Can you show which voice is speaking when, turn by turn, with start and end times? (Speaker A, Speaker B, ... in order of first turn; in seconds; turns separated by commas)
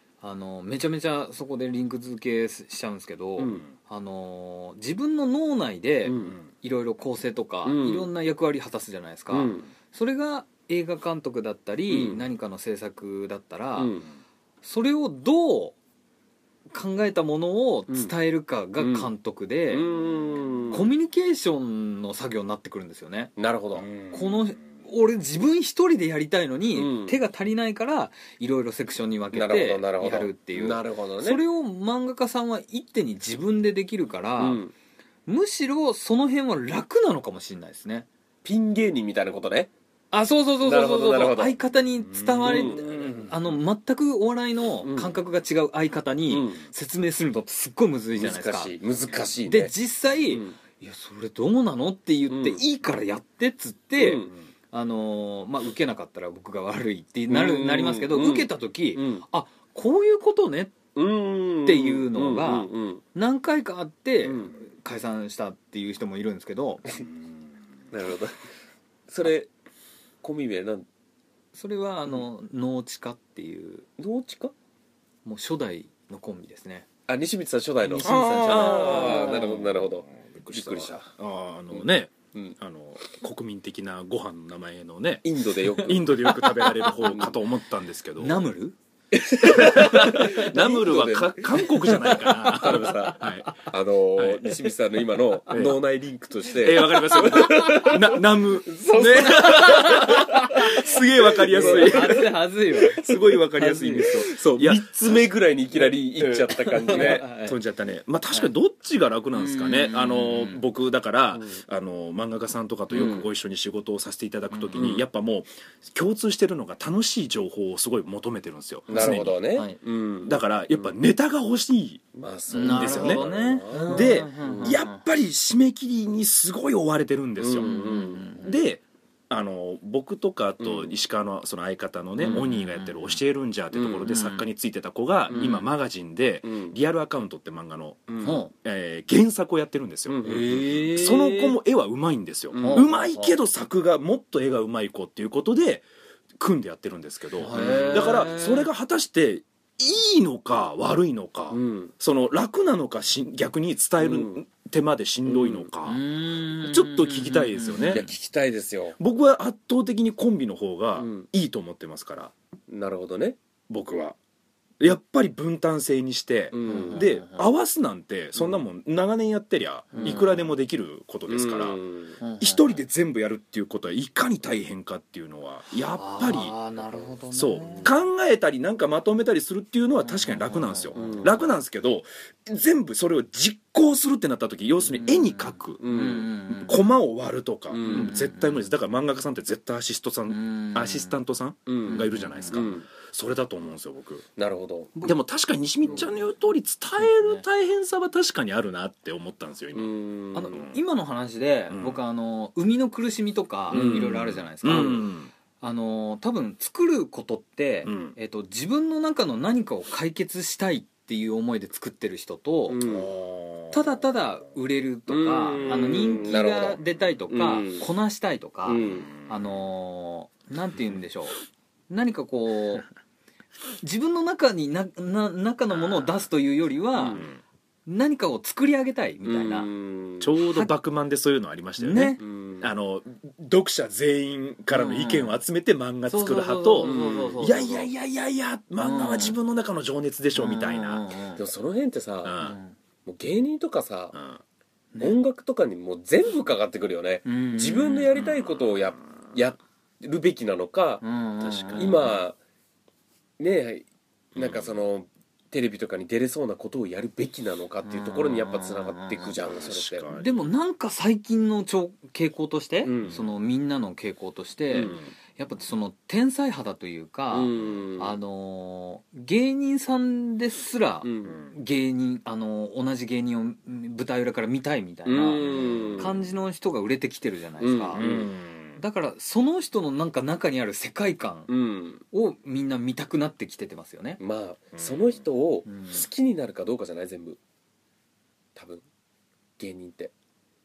Speaker A: 0.2-13.9, Speaker B: 3.4-3.6, Speaker B: 6.0-6.4, Speaker B: 7.6-8.1, Speaker B: 9.3-9.7, Speaker B: 11.9-12.2, Speaker B: 13.8-14.1, Speaker A: 14.6-15.8, Speaker A: 16.7-19.9, Speaker B: 18.8-19.1, Speaker B: 19.7-20.9, Speaker A: 20.7-23.3, Speaker B: 23.4-23.9, Speaker C: 23.8-24.5, Speaker A: 24.1-34.6, Speaker B: 26.7-27.2, Speaker B: 29.3-31.4, Speaker B: 34.4-34.7, Speaker A: 35.3-38.1, Speaker B: 38.4-39.7, Speaker A: 40.1-48.8, Speaker B: 40.6-41.5, Speaker C: 42.1-43.4, Speaker B: 42.4-43.2, Speaker B: 44.8-45.1, Speaker B: 46.3-46.6, Speaker B: 48.1-49.7, Speaker A: 49.5-60.8, Speaker B: 50.3-50.5, Speaker B: 52.3-52.6, Speaker B: 54.0-54.3, Speaker B: 57.3-59.2, Speaker B: 60.9-63.0, Speaker A: 61.6-66.8, Speaker B: 64.2-64.5, Speaker B: 67.9-68.3, Speaker B: 69.1-69.5, Speaker B: 70.2-70.8, Speaker A: 71.5-73.8, Speaker B: 74.0-74.5, Speaker A: 75.2-76.9, Speaker B: 77.1-81.0, Speaker A: 77.8-79.5, Speaker C: 78.0-85.2, Speaker B: 81.7-82.5, Speaker B: 85.2-87.3, Speaker C: 85.8-88.4, Speaker A: 88.2-88.8, Speaker B: 89.1-102.3, Speaker C: 89.4-93.5, Speaker A: 90.0-90.3, Speaker A: 91.9-93.2, Speaker C: 94.2-94.5, Speaker C: 95.5-95.8, Speaker C: 96.6-102.3, Speaker A: 99.0-101.0, Speaker A: 101.5-104.3, Speaker C: 102.9-105.2, Speaker B: 103.0-103.3, Speaker B: 104.1-107.3, Speaker C: 106.2-119.5, Speaker A: 106.9-107.6, Speaker A: 109.3-110.6, Speaker A: 112.9-113.2, Speaker B: 112.9-113.2, Speaker A: 114.5-114.8, Speaker B: 114.7-115.0, Speaker A: 118.9-119.8, Speaker B: 118.9-120.9, Speaker C: 120.2-122.0, Speaker B: 122.1-124.8, Speaker A: 122.5-125.0, Speaker C: 122.5-123.2, Speaker C: 123.9-127.7, Speaker B: 127.4-128.4, Speaker A: 127.6-128.5, Speaker C: 128.4-145.8, Speaker B: 130.6-130.9, Speaker A: 132.2-133.2, Speaker B: 133.7-134.1, Speaker A: 134.0-134.4, Speaker B: 135.3-135.6, Speaker A: 135.3-135.7, Speaker B: 136.4-136.8, Speaker B: 138.1-138.4, Speaker A: 138.2-138.5, Speaker B: 140.1-140.8, Speaker A: 140.2-141.5, Speaker B: 142.5-142.9, Speaker A: 142.6-143.3, Speaker C: 146.4-158.1, Speaker A: 147.4-148.7, Speaker B: 147.5-148.3, Speaker B: 151.5-151.9, Speaker B: 154.0-154.4, Speaker B: 155.2-155.7, Speaker A: 155.8-158.1, Speaker B: 157.9-159.0, Speaker C: 159.0-162.3, Speaker B: 161.0-161.3, Speaker B: 162.7-163.4, Speaker C: 163.7-164.2, Speaker C: 164.8-171.8, Speaker B: 166.5-167.1, Speaker A: 166.7-167.4, Speaker A: 169.9-170.3, Speaker B: 171.3-172.2, Speaker A: 172.2-172.7, Speaker C: 172.4-176.5, Speaker A: 175.9-177.9, Speaker C: 177.3-185.8, Speaker B: 177.7-178.0, Speaker A: 180.0-181.3, Speaker B: 180.9-181.4, Speaker A: 184.9-186.8, Speaker B: 185.8-186.3, Speaker C: 186.5-194.2, Speaker B: 187.7-188.1, Speaker A: 187.8-188.6, Speaker A: 190.3-191.2, Speaker B: 191.7-192.8, Speaker A: 191.9-192.5, Speaker B: 194.3-194.9, Speaker C: 195.0-199.9, Speaker A: 195.8-196.1, Speaker A: 197.0-197.4, Speaker B: 199.7-200.6, Speaker A: 200.3-205.1, Speaker C: 201.7-202.0, Speaker B: 203.7-204.9, Speaker C: 203.7-205.3, Speaker A: 205.6-212.8, Speaker C: 207.8-208.1, Speaker B: 212.7-213.1, Speaker C: 212.8-214.0, Speaker A: 213.7-221.3, Speaker B: 215.1-217.8, Speaker B: 218.6-219.1, Speaker C: 218.8-219.6, Speaker A: 221.9-222.9, Speaker A: 223.8-227.2, Speaker C: 225.7-226.2, Speaker B: 226.9-227.3, Speaker A: 227.9-229.7, Speaker B: 229.2-230.3, Speaker C: 230.2-241.2, Speaker A: 231.8-232.2, Speaker B: 232.2-232.7, Speaker A: 234.7-235.4, Speaker A: 236.1-237.9, Speaker B: 236.8-237.4, Speaker A: 238.8-239.3, Speaker A: 240.3-241.4, Speaker B: 241.3-242.4, Speaker C: 242.2-242.6, Speaker A: 242.4-242.7, Speaker B: 243.1-244.2, Speaker B: 245.0-251.0, Speaker A: 247.2-248.1, Speaker A: 251.0-252.0, Speaker C: 251.4-252.2, Speaker B: 251.8-252.3, Speaker B: 253.4-260.1, Speaker C: 254.3-254.8, Speaker A: 257.8-259.3, Speaker C: 259.4-260.4, Speaker A: 260.1-278.1, Speaker B: 262.8-263.2, Speaker B: 264.7-265.0, Speaker B: 267.3-268.1, Speaker B: 271.0-271.4, Speaker B: 275.1-276.1, Speaker C: 275.8-276.1, Speaker B: 277.6-278.3, Speaker C: 278.0-278.8, Speaker A: 278.8-281.5, Speaker B: 281.5-282.0, Speaker A: 282.1-284.2, Speaker B: 284.2-287.4, Speaker C: 284.8-285.2, Speaker A: 285.7-286.0, Speaker B: 288.5-288.8, Speaker B: 289.6-290.1